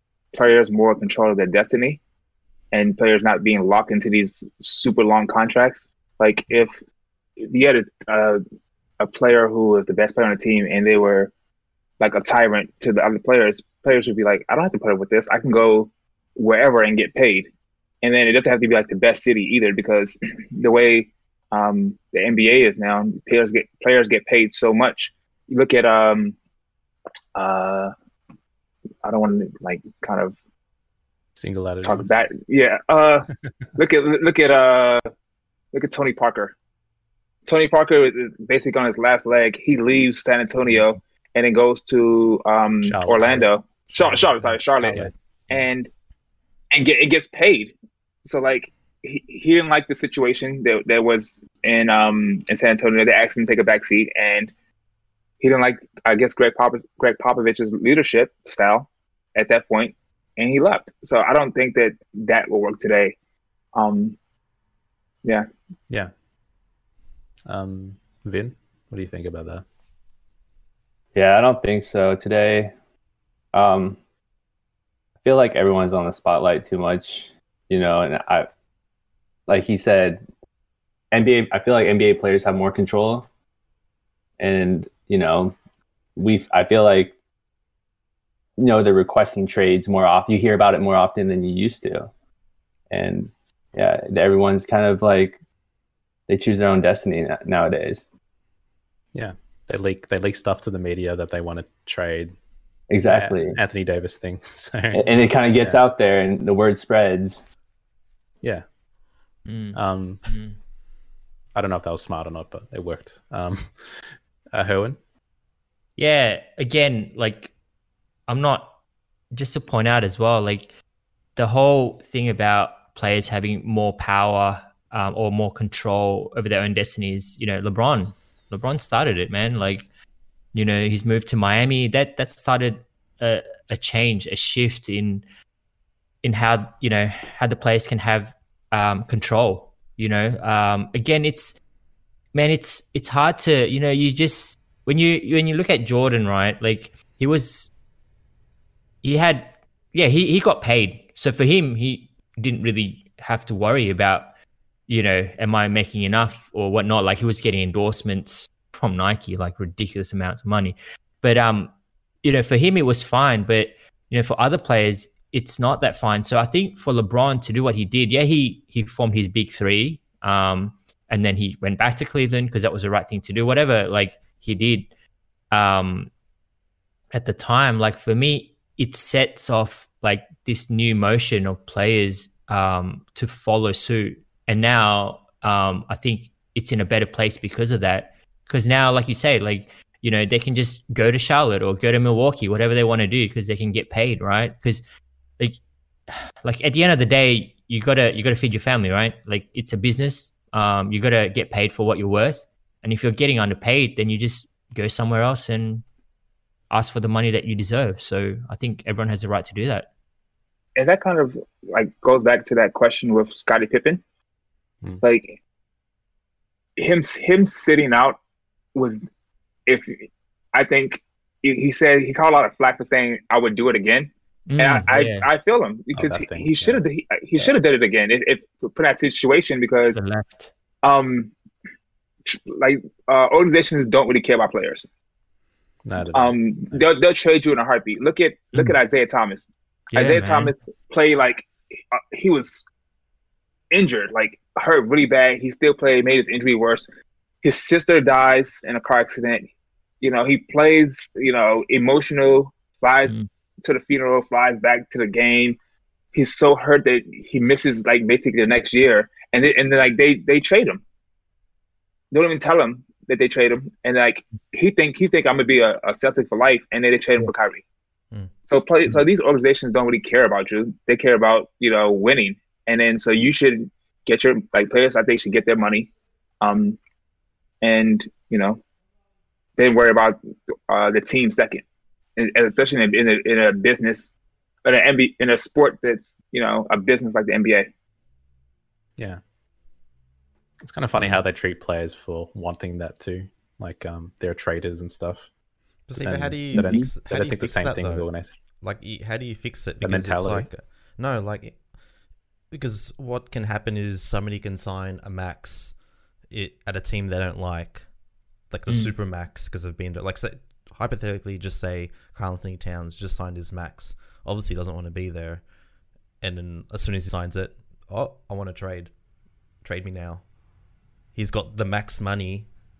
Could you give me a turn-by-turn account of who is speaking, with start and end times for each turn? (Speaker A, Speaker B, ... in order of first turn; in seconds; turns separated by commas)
Speaker A: 0.3-2.0, Speaker A: 2.7-6.8, Speaker A: 7.4-8.4, Speaker A: 9.0-11.3, Speaker A: 12.0-17.5, Speaker A: 18.0-26.4, Speaker A: 27.4-27.9, Speaker A: 29.0-30.4, Speaker B: 31.4-32.1, Speaker A: 31.8-35.1, Speaker A: 35.7-36.6, Speaker A: 37.5-45.9, Speaker B: 42.8-45.1, Speaker A: 46.7-54.5, Speaker A: 55.4-63.2, Speaker A: 63.8-64.2, Speaker B: 67.5-69.7, Speaker C: 71.2-72.8, Speaker C: 73.5-74.0, Speaker C: 75.2-78.5, Speaker C: 79.5-80.2, Speaker C: 81.1-83.3, Speaker C: 84.4-85.6, Speaker C: 86.2-87.2, Speaker C: 88.6-92.1, Speaker C: 92.9-95.4, Speaker C: 96.3-98.0, Speaker B: 99.1-102.3, Speaker C: 102.9-103.6, Speaker B: 103.0-105.8, Speaker C: 104.9-107.4, Speaker D: 109.5-110.6, Speaker B: 109.7-110.2, Speaker B: 111.5-115.0, Speaker D: 116.0-117.5, Speaker D: 118.3-118.8, Speaker D: 119.3-120.7, Speaker D: 121.4-129.9, Speaker D: 130.5-135.2, Speaker D: 136.2-141.6, Speaker D: 142.3-147.7, Speaker D: 149.0-154.3, Speaker D: 154.9-174.9, Speaker D: 175.5-176.1, Speaker D: 177.1-194.8, Speaker D: 195.4-205.8, Speaker D: 206.7-209.9, Speaker A: 210.8-214.0, Speaker A: 215.0-215.4, Speaker A: 216.8-218.2, Speaker A: 218.8-219.1, Speaker A: 219.7-230.0, Speaker D: 224.5-225.3, Speaker B: 225.9-226.8, Speaker D: 229.9-230.5, Speaker A: 230.8-231.3, Speaker A: 232.3-234.9, Speaker B: 235.8-236.8, Speaker A: 236.1-242.7, Speaker D: 239.9-240.6, Speaker A: 243.7-246.9, Speaker A: 247.4-249.5, Speaker A: 250.0-255.6, Speaker A: 256.1-260.8, Speaker A: 262.1-267.6, Speaker A: 268.5-276.8, Speaker A: 277.6-278.6, Speaker A: 279.6-281.6, Speaker A: 282.2-284.1, Speaker A: 284.6-287.7, Speaker B: 290.6-295.3, Speaker E: 295.9-301.7, Speaker B: 296.0-298.3, Speaker D: 296.6-296.9, Speaker B: 299.8-300.5, Speaker E: 302.5-307.9, Speaker E: 308.5-315.5, Speaker D: 308.7-308.9, Speaker E: 316.2-318.9, Speaker E: 319.6-320.3, Speaker E: 321.1-322.5